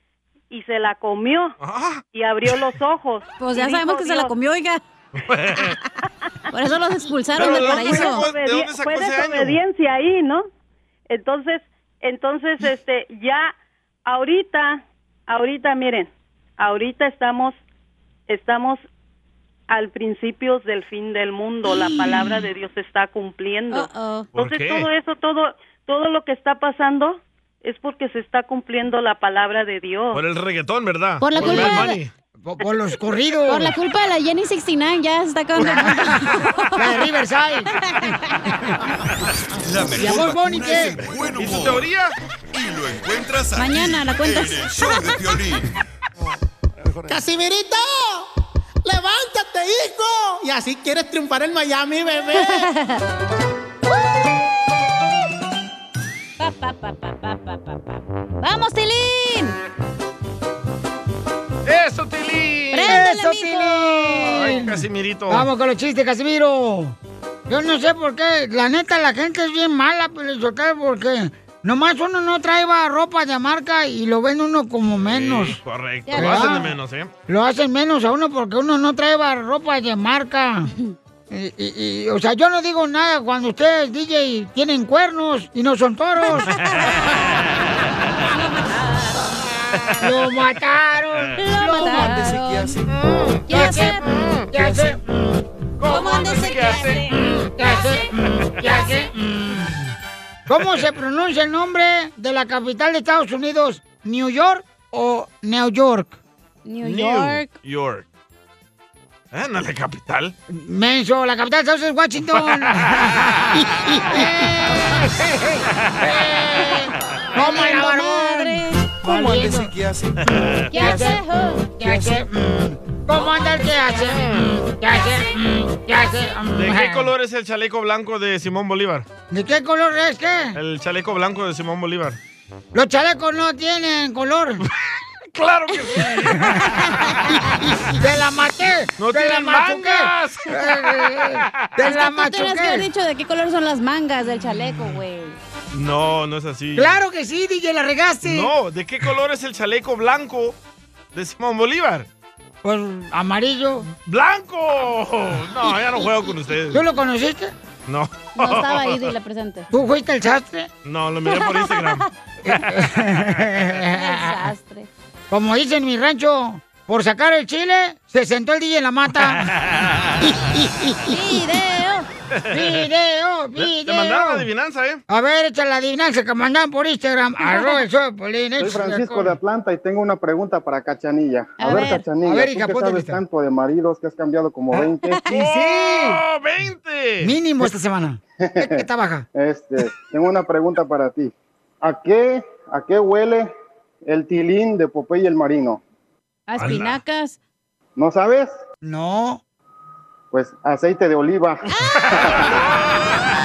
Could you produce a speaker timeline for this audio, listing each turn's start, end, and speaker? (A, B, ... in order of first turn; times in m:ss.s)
0:00.5-0:01.6 A
0:01.6-0:02.0 B
0:02.1-0:04.4 A
0:03.4-0:04.8 C
0:05.1-0:05.8 B
0:06.5-0:08.2 C
0:07.3-0:09.6 B
0:07.3-0:10.5 A
0:11.1-0:13.5 A
0:14.0-0:17.6 A
0:18.3-0:18.9 A
0:19.7-0:30.2 A
0:23.7-0:24.3 C
0:24.3-0:24.9 B
0:30.1-0:32.1 B
0:31.2-0:32.0 C
0:31.4-0:31.8 D
0:32.4-0:33.7 D
0:33.5-0:36.9 C
0:35.6-0:35.9 B
0:35.7-0:37.7 D
0:39.6-0:41.8 E
0:39.9-0:41.0 D
0:41.4-0:42.2 B
0:42.5-0:45.7 E
0:43.6-0:45.2 C
0:47.1-0:48.2 F
0:48.8-0:52.7 F
0:52.4-0:53.0 C
0:56.4-0:59.6 C
1:01.6-1:03.0 B
1:02.7-1:04.6 C
1:02.8-1:07.0 D
1:04.2-1:05.5 B
1:07.5-1:15.6 D
1:15.0-1:17.1 B
1:16.1-1:16.6 C
1:16.1-1:16.7 D
1:17.3-1:20.7 D
1:21.3-1:26.5 D
1:26.9-1:27.2 C
1:28.3-1:29.3 C
1:30.0-1:32.3 D
1:31.4-1:32.7 C
1:31.7-1:32.9 G
1:33.5-1:34.0 C
1:33.5-1:35.4 D
1:35.8-1:37.1 C
1:36.0-1:36.8 G
1:36.2-1:37.0 B
1:37.0-1:39.8 D
1:40.5-1:46.2 D
1:46.6-1:47.5 C
1:46.8-1:48.0 B
1:49.3-1:50.3 B
1:50.5-1:59.7 D
1:55.8-1:56.3 B
1:57.4-1:58.8 C
1:59.0-2:00.2 G
2:00.2-2:00.6 B
2:00.7-2:01.8 C
2:00.7-2:01.2 D
2:01.8-2:07.1 D
2:01.8-2:02.2 G
2:06.5-2:09.0 B
2:09.3-2:10.6 D
2:10.6-2:12.2 B
2:12.7-2:14.6 D
2:15.3-2:17.4 B
2:15.8-2:16.3 C
2:16.4-2:16.8 D
2:17.8-2:22.8 D
2:19.0-2:21.7 B
2:21.8-2:25.4 C
2:25.7-2:27.0 B
2:26.8-2:28.5 D
2:28.2-2:30.5 B
2:31.1-2:32.1 B
2:32.6-2:33.8 D
2:34.0-2:36.8 B
2:36.7-2:37.5 D
2:37.9-2:39.1 B
2:38.4-2:39.7 C
2:39.7-2:40.7 D
2:40.8-2:42.0 B
2:41.3-2:42.1 C
2:42.4-2:44.5 D
2:43.9-2:44.9 C
2:45.3-2:49.5 D
2:49.2-2:50.3 B
2:50.2-2:51.2 D
2:51.1-2:52.1 C
2:52.4-2:52.9 B
2:52.5-2:54.5 D
2:53.5-2:55.0 B
2:55.1-2:59.4 D
2:57.4-2:57.8 C
2:58.6-3:05.2 H
3:01.6-3:02.0 C
3:02.2-3:03.2 D
3:04.8-3:06.2 D
3:05.3-3:07.3 B
3:07.2-3:09.2 D
3:08.4-3:08.8 H
3:09.4-3:13.5 H
3:14.1-3:15.8 H
3:16.5-3:17.4 C
3:16.6-3:17.0 B
3:18.0-3:18.6 H
3:18.8-3:19.4 D
3:20.3-3:22.5 H
3:21.7-3:22.6 C